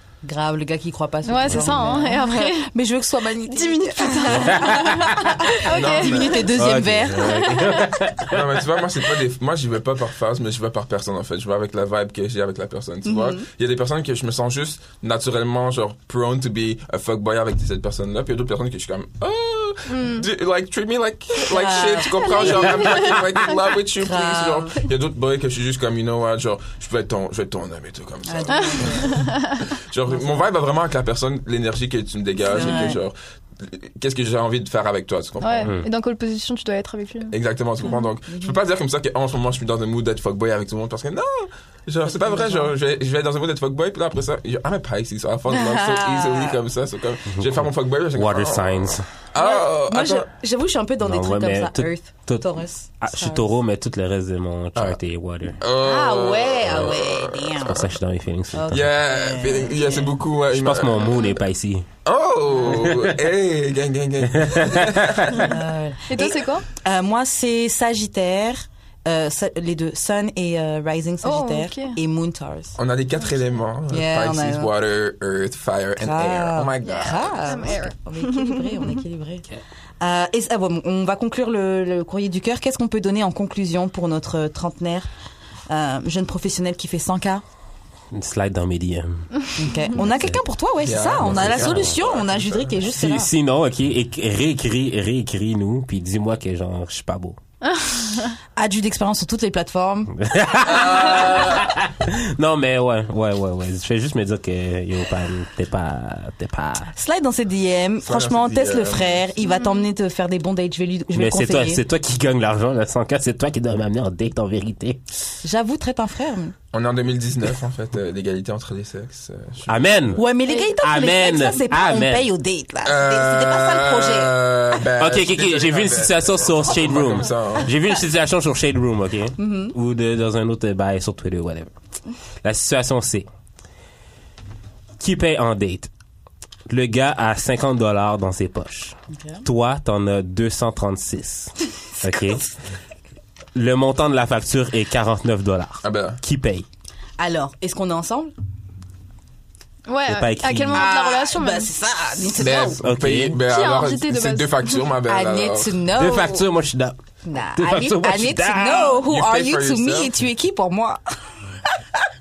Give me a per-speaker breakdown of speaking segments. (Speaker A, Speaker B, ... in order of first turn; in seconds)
Speaker A: 0.2-7.5, 13.1-13.4, 21.4-23.2, 23.9-24.9, 28.2-29.2, 32.5-33.0, 38.3-38.6, 42.1-42.7, 45.5-46.6, 49.4-53.5, 55.8-57.9, 58.5-60.1, 65.4-72.8, 73.9-74.7, 76.0-79.5, 80.0-85.1, 85.7-87.4, 89.5-93.3, 98.5-100.1, 106.9-111.8, 115.4-116.5, 120.1-124.4, 129.4-129.7, 139.1-139.4, 147.2-148.3, 150.7-152.8, 155.1-156.4, 157.2-161.0
Speaker B: 1.2-2.7, 3.6-6.5, 7.2-7.9, 19.9-20.2, 28.5-29.6, 35.4-37.3, 66.1-66.7, 71.2-72.0, 76.8-78.9, 97.6-98.3, 109.4-109.8, 120.5-120.7, 149.9-151.7, 153.5-154.7
Speaker C: 4.3-4.9, 6.5-8.4, 47.3-49.1, 51.0-52.4, 53.0-55.6, 57.6-58.9, 60.5-61.9, 62.8-63.1, 64.3-65.4, 88.1-90.4, 91.2-92.0, 92.9-97.4, 100.2-106.9, 111.1-115.0, 119.7-120.2, 120.8-122.3, 125.0-131.7, 132.4-133.3, 135.0-135.9, 136.7-142.5, 143.5-146.7, 150.1-150.9, 152.8-153.4, 155.9-156.9, 157.6-159.0
Speaker D: 5.6-6.5, 8.3-35.7, 37.3-50.3, 55.6-57.5, 58.7-61.4, 62.0-65.5, 72.8-77.4, 90.8-92.7, 100.6-101.7, 108.0-109.3, 116.7-120.2, 122.8-127.7, 145.8-146.2, 152.3-155.8, 159.0-160.1